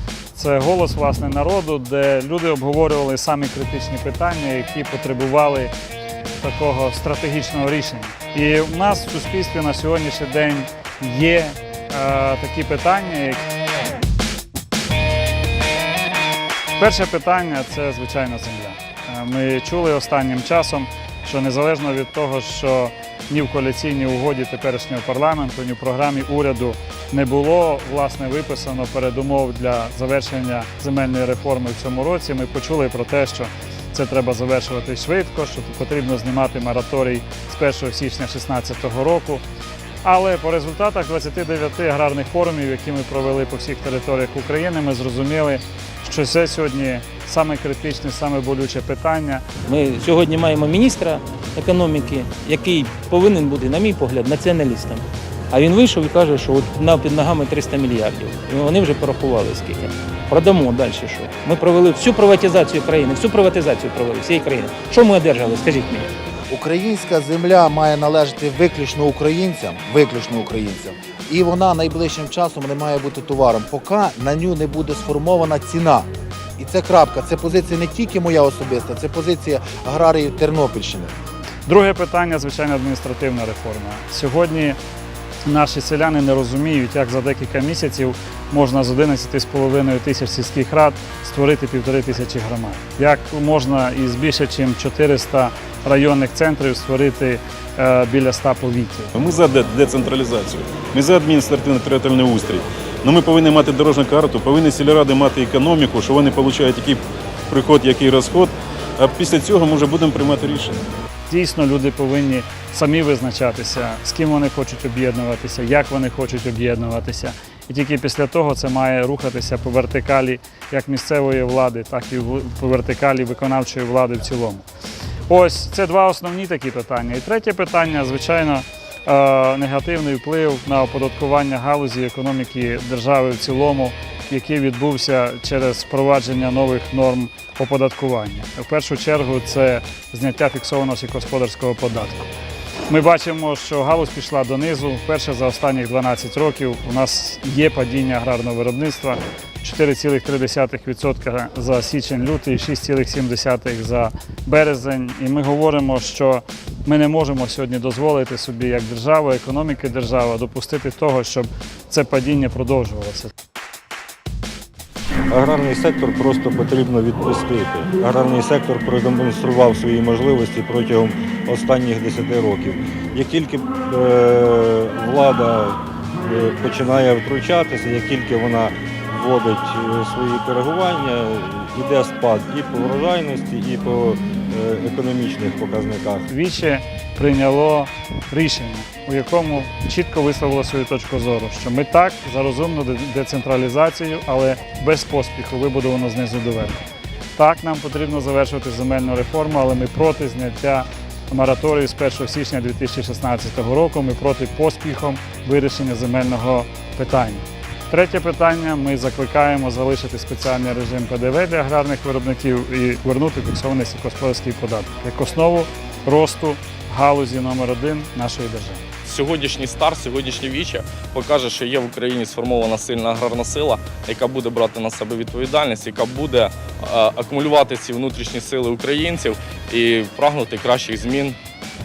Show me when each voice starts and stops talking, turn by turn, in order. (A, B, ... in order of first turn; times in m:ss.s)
0:00.3-0:05.7 A
0:06.4-0:13.4 A
0:16.8-0:39.4 A
0:40.0-0:49.4 A
0:49.6-1:06.1 B
1:06.5-1:21.1 C
1:21.6-1:24.8 A
1:25.4-1:39.1 A
1:39.1-1:50.8 D
1:51.3-2:04.6 A
2:05.3-2:22.3 A
2:22.9-2:43.3 A
2:45.3-3:06.3 E
3:06.3-3:16.8 A
3:17.4-3:38.8 A
3:39.0-3:51.4 F